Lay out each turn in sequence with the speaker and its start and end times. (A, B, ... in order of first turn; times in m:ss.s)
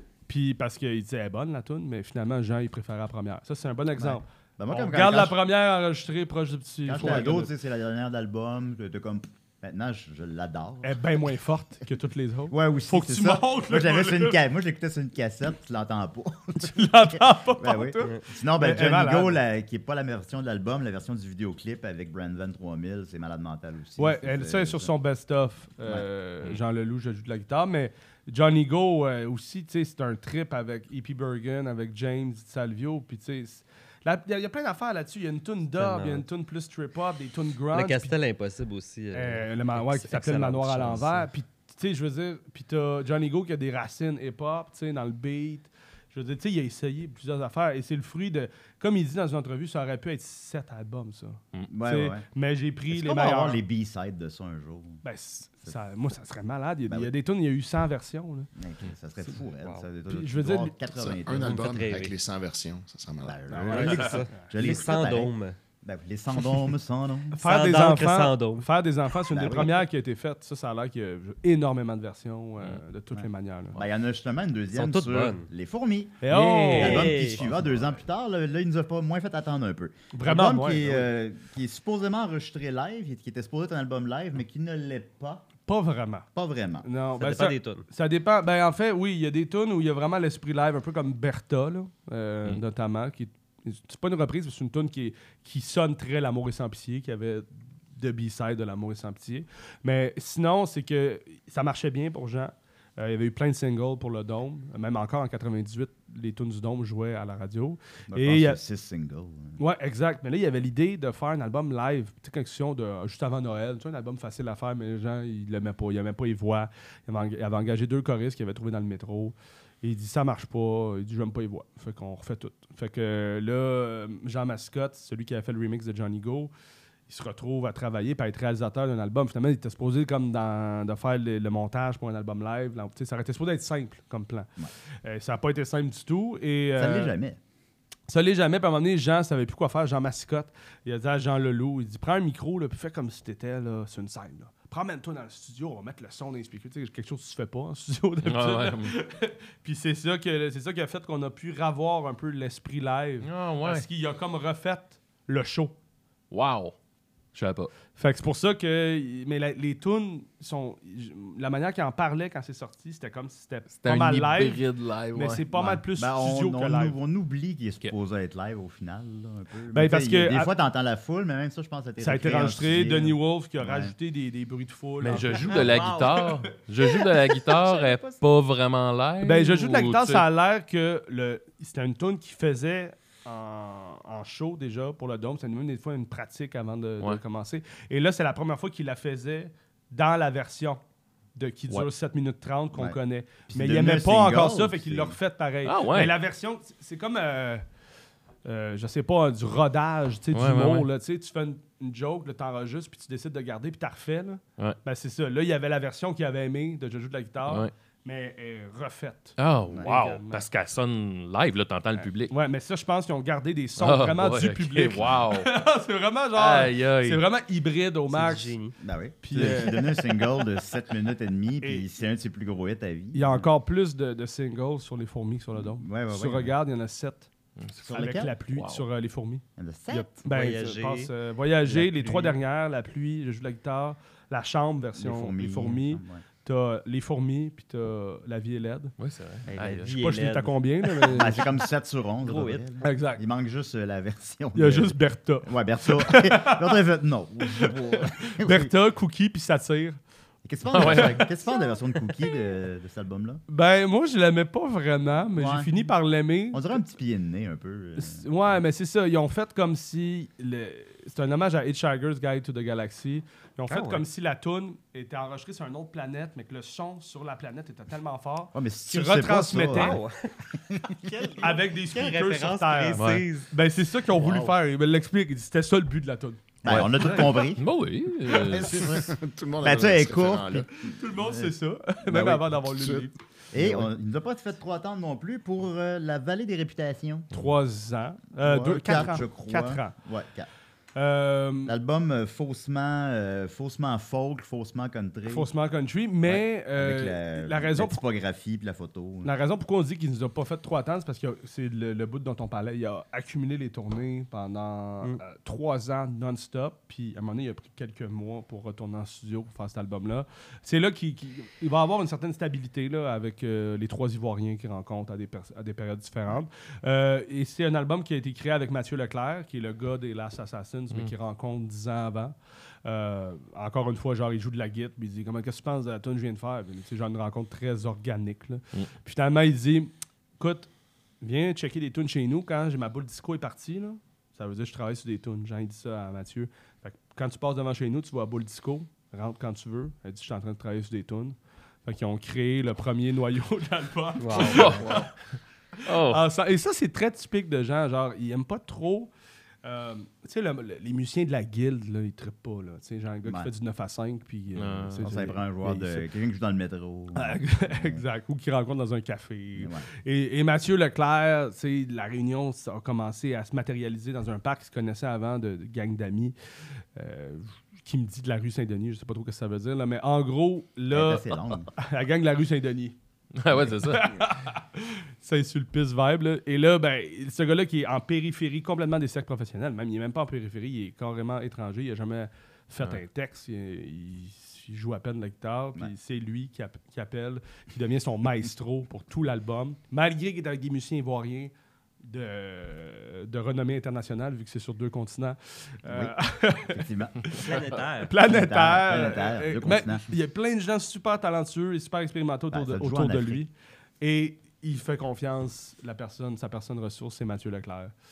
0:00.3-0:07.5 A
0:04.0-0:05.4 B
0:06.8-0:11.0 B
0:10.8-0:14.4 A
0:12.5-0:24.9 B
0:16.6-0:19.4 A
0:24.0-0:38.1 A
0:35.8-0:36.2 C
0:37.7-0:41.3 C
0:39.1-0:53.6 A
0:51.7-0:52.2 B
0:52.9-0:55.0 B
0:55.0-0:58.5 A
0:56.9-0:57.1 B
0:58.5-1:01.9 B
0:59.6-0:59.8 C
1:00.1-1:00.8 A
1:01.0-1:03.9 D
1:01.4-1:02.1 C
1:03.2-1:07.4 B
1:03.5-1:04.4 A
1:03.6-1:05.6 C
1:07.3-1:13.8 A
1:07.4-1:08.6 C
1:09.3-1:09.8 B
1:13.1-1:25.5 B
1:14.7-1:15.5 C
1:16.2-1:17.4 A
1:16.6-1:17.6 C
1:20.1-1:21.1 A
1:25.6-1:26.2 A
1:26.3-1:26.8 B
1:26.8-1:48.6 A
1:27.2-1:27.8 C
1:48.1-1:49.6 B
1:49.6-2:06.5 A
2:07.1-2:14.5 A
2:15.0-2:17.2 A
2:16.8-2:17.4 B
2:18.1-2:35.8 A
2:28.2-2:28.9 E
2:33.2-2:33.8 E
2:36.3-2:36.7 E
2:37.3-2:37.7 E
2:37.9-2:44.6 A
2:43.8-2:45.4 E
2:45.1-2:47.0 A
2:45.5-2:53.9 B
2:49.7-2:50.5 A
2:52.0-2:56.2 A
2:55.0-3:00.2 E
2:55.4-2:56.3 B
2:57.7-2:58.2 B
2:59.2-3:10.8 A
3:11.4-3:17.6 A
3:13.5-3:15.2 B
3:15.6-3:16.2 E
3:18.4-3:30.4 A
3:20.3-3:20.9 E
3:27.4-3:27.7 E
3:29.4-3:32.3 E
3:32.3-3:38.6 A
3:33.8-3:35.5 E
3:36.4-3:37.2 E
3:38.1-3:38.7 C
3:38.8-3:43.5 B
3:39.2-3:40.2 A
3:43.1-3:47.3 A
3:45.5-3:46.5 B
3:47.6-3:47.9 E
3:47.8-3:48.3 B
3:47.9-3:58.9 A
3:48.5-3:48.8 E
3:49.6-3:50.2 B
3:50.2-3:51.1 C
3:51.7-3:52.4 C
3:54.9-3:56.2 B
3:59.0-4:00.0 E
3:59.5-4:01.4 C
3:59.9-4:01.4 A
4:01.0-4:08.7 B
4:02.2-4:02.6 C
4:02.8-4:03.2 A
4:04.5-4:06.7 A
4:07.6-4:10.0 A
4:10.4-4:13.4 B
4:10.7-4:11.2 E
4:10.7-4:11.3 A
4:13.5-4:16.7 A
4:15.3-4:15.7 B
4:16.5-4:18.6 B
4:18.0-4:30.0 A
4:23.7-4:24.0 C
4:28.5-4:30.0 B
4:29.7-4:33.5 C
4:30.6-4:31.1 B
4:31.4-4:37.4 A
4:32.9-4:33.2 E
4:34.1-4:34.6 B
4:36.6-4:37.6 B
4:36.6-4:38.9 E
4:38.5-4:40.7 D
4:38.5-4:41.5 B
4:40.7-4:43.2 A
4:42.1-4:43.9 D
4:43.5-4:47.3 B
4:47.3-4:49.9 A
4:48.4-4:50.5 B
4:50.9-4:51.7 A
4:51.6-4:55.5 B
4:55.3-4:58.0 A
4:56.2-4:59.3 B
4:59.2-5:30.7 A
5:31.2-5:45.1 A
5:44.2-5:44.9 C
5:44.3-5:45.0 E
5:45.8-5:49.1 A
5:45.8-5:46.2 E
5:49.6-5:56.0 A
5:53.2-5:53.5 B
5:54.5-5:55.0 E
5:55.0-5:58.0 B
5:57.1-6:06.3 A
5:59.6-5:59.8 B
6:06.9-6:13.0 A
6:10.9-6:11.7 B
6:13.3-6:14.2 E
6:13.7-6:31.5 A
6:32.0-6:37.5 A
6:35.8-6:37.4 B
6:37.4-6:38.1 C
6:38.0-6:47.9 A
6:38.2-6:40.0 B
6:42.5-6:43.4 B